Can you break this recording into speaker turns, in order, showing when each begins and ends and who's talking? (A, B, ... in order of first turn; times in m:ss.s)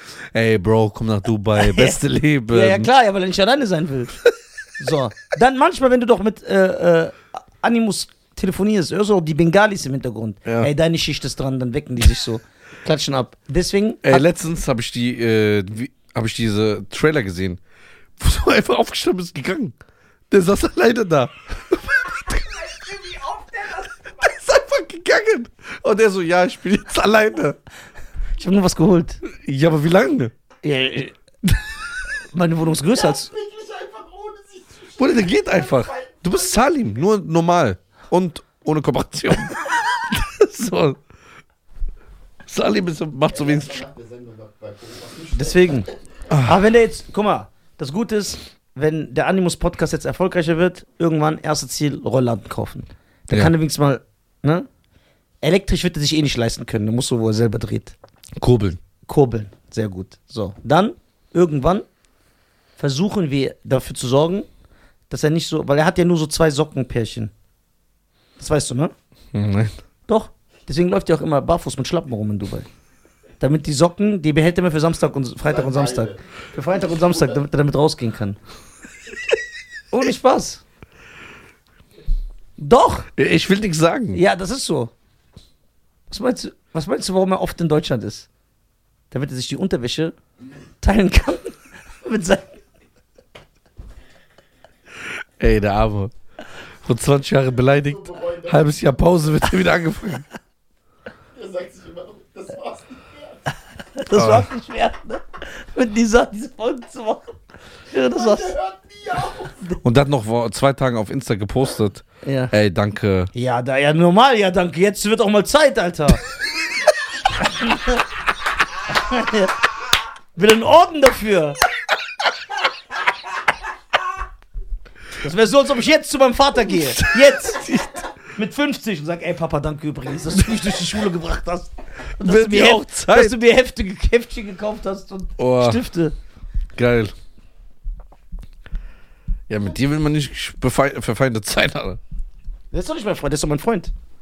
0:00.3-0:02.9 A
0:01.6-0:04.2 B
0:04.8-0:14.2 B
0:14.0-0:17.6 A
0:18.2-0:19.7 A
0:20.3-0:22.4 A
0:22.5-0:24.1 C
0:24.2-0:27.6 A
0:28.4-0:29.2 B
0:29.3-0:30.3 A
0:30.6-0:31.1 B
0:32.3-0:33.3 B
0:32.7-0:36.8 C
0:35.0-0:41.0 A
0:42.5-0:43.8 A
0:43.3-0:46.0 C
0:45.3-0:45.9 B
0:46.3-0:46.6 A
0:46.4-0:54.7 B
0:55.4-0:57.9 B
0:58.4-0:58.8 A
0:59.0-1:01.8 B
1:02.8-1:04.5 B
1:05.1-1:07.3 B
1:08.4-1:08.9 B
1:09.3-1:09.7 A
1:10.1-1:12.7 B
1:13.4-1:18.4 B
1:15.4-1:17.4 C
1:19.9-1:20.6 B
1:22.6-1:23.1 B
1:23.2-1:24.2 A
1:24.1-1:24.9 B
1:26.1-1:28.3 B
1:29.1-1:30.2 B
1:30.8-1:32.4 B
1:35.4-1:36.1 A
1:36.8-1:40.2 A
1:37.6-1:39.1 C
1:41.3-1:43.4 C
1:44.0-1:47.3 B
1:44.1-1:44.5 A
1:47.9-1:48.5 B
1:48.1-1:49.7 C
1:49.8-1:53.3 A
1:52.2-1:52.5 B
1:53.3-1:56.2 B
1:57.5-1:58.0 B
1:59.0-1:59.5 B
2:00.3-2:01.6 B
2:05.2-2:07.6 B
2:06.6-2:08.0 A
2:08.3-2:16.2 B
2:12.2-2:13.3 A
2:15.4-2:15.8 A
2:16.8-2:17.1 A
2:19.5-2:22.0 A
2:22.7-2:23.9 B